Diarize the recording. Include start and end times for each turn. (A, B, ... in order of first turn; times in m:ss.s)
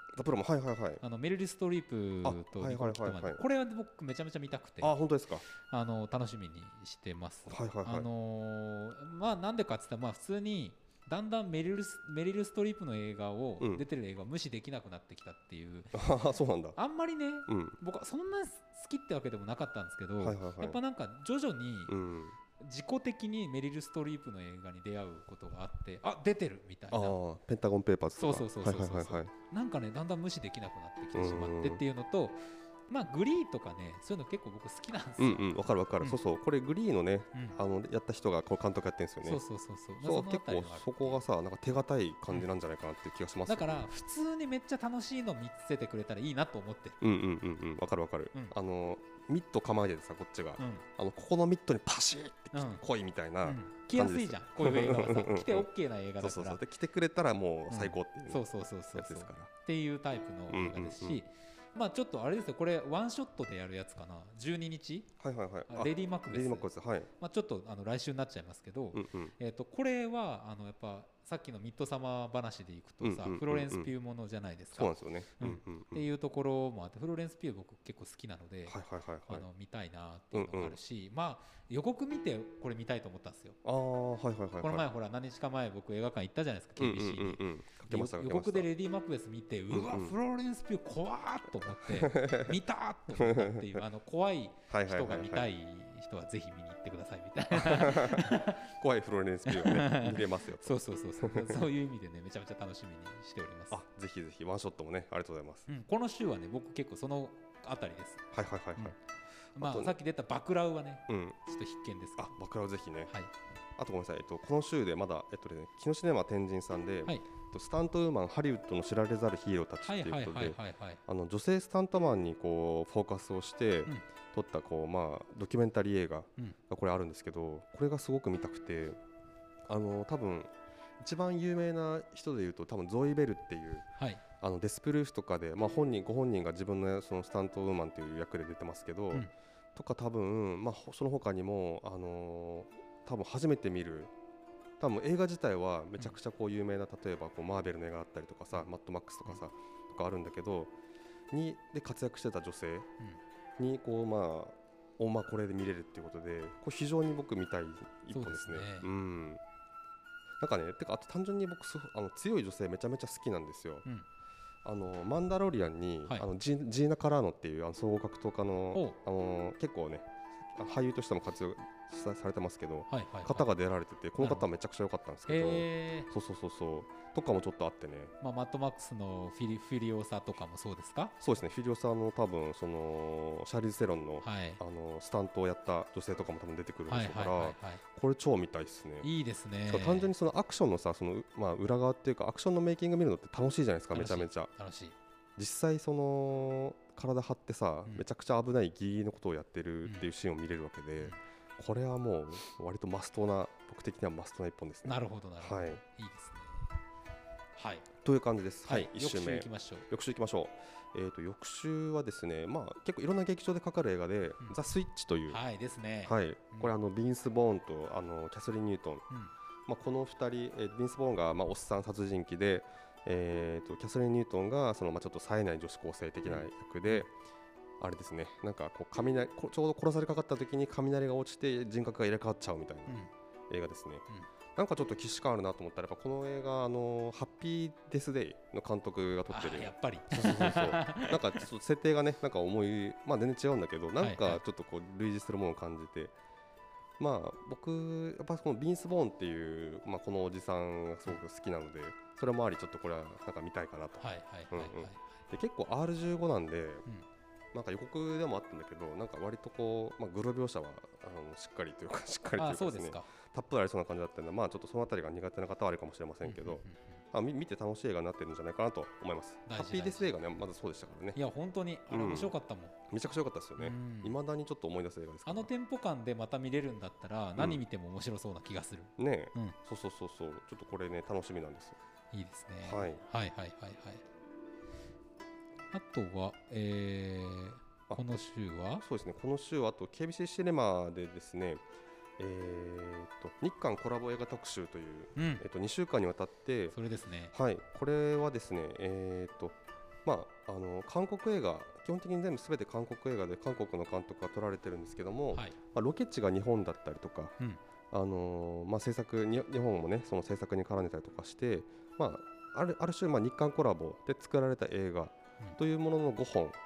0:00.1-0:01.0 A
0:01.0-0:04.9 B
0:02.2-0:03.4 A
0:04.8-0:05.4 A
0:05.5-0:16.0 B
0:07.5-0:08.1 A
0:15.9-0:16.8 A
0:16.8-0:22.0 B
0:17.5-0:17.8 A
0:20.2-0:20.8 A
0:21.9-0:22.4 A
0:22.6-0:27.2 B
0:26.9-0:29.3 A
0:28.2-0:36.2 B
0:31.1-0:31.8 A
0:35.2-0:39.4 A
0:39.2-0:41.2 B
0:40.0-0:43.8 A
0:43.5-0:47.0 B
0:47.0-0:55.7 A
0:50.6-0:50.8 B
0:52.5-0:52.8 B
0:53.4-0:56.6 B
0:56.2-0:58.4 A
0:57.7-1:05.1 B
0:58.9-0:59.5 A
1:00.5-1:01.2 A
1:05.2-1:07.1 A
1:05.7-1:06.7 B
1:07.2-1:18.8 B
1:08.9-1:09.3 A
1:13.0-1:13.9 A
1:14.7-1:16.0 A
1:18.7-1:19.4 A
1:19.3-1:23.6 B
1:20.3-1:20.8 A
1:23.6-1:24.8 A
1:24.6-1:38.7 B
1:26.8-1:28.7 A
1:29.7-1:30.1 A
1:31.8-1:32.6 A
1:33.1-1:33.8 A
1:34.7-1:35.5 A
1:37.5-1:41.6 A
1:39.4-1:43.8 B
1:43.7-1:45.7 A
1:45.7-1:48.2 B
1:48.3-1:49.0 A
1:49.6-1:49.9 A
1:49.6-1:52.3 B
1:51.1-1:51.4 A
1:52.2-1:53.1 A
1:53.8-2:09.0 A
1:59.8-2:01.0 B
2:09.7-2:13.8 A
2:14.4-2:24.1 A
2:24.8-2:30.7 A
2:31.3-2:32.9 A
2:33.6-2:39.4 A
2:38.1-2:38.9 B
2:40.4-2:43.8 A
2:44.6-2:58.1 A
2:52.9-2:53.5 B
2:54.2-2:54.4 B
2:55.3-2:56.1 B
2:58.2-3:01.1 B
3:01.2-3:09.1 A
3:04.2-3:04.6 B
3:06.9-3:07.8 B
3:09.0-3:10.1 B
3:09.7-3:14.5 A
3:13.9-3:14.9 B
3:15.4-3:25.8 A
3:24.8-3:26.7 B
3:27.6-3:27.9 B
3:28.0-3:35.4 A
3:28.6-3:29.9 B
3:35.3-3:36.7 B
3:36.0-3:39.0 A
3:39.7-3:47.1 A
3:46.3-3:47.0 B
3:47.8-3:53.0 A
3:53.5-3:54.0 A
3:54.6-4:06.1 A
3:59.3-4:01.4 B
4:04.0-4:04.4 B
4:07.0-4:16.8 A
4:14.0-4:15.1 B
4:17.5-4:31.2 A
4:22.4-4:23.1 B
4:26.2-4:27.0 B
4:29.5-4:30.1 B
4:31.2-4:32.8 B
4:31.9-4:32.3 A
4:32.9-4:35.5 A
4:33.6-4:34.2 B
4:35.2-4:39.6 B
4:37.4-4:37.6 A
4:39.0-4:41.8 A
4:42.1-4:44.0 B
4:42.6-4:43.0 A
4:45.7-4:48.8 B
4:48.8-4:51.6 A
4:52.2-4:56.8 A
4:55.2-4:55.4 B
4:56.7-4:57.3 B
4:57.3-5:07.3 A
5:07.9-5:16.6 A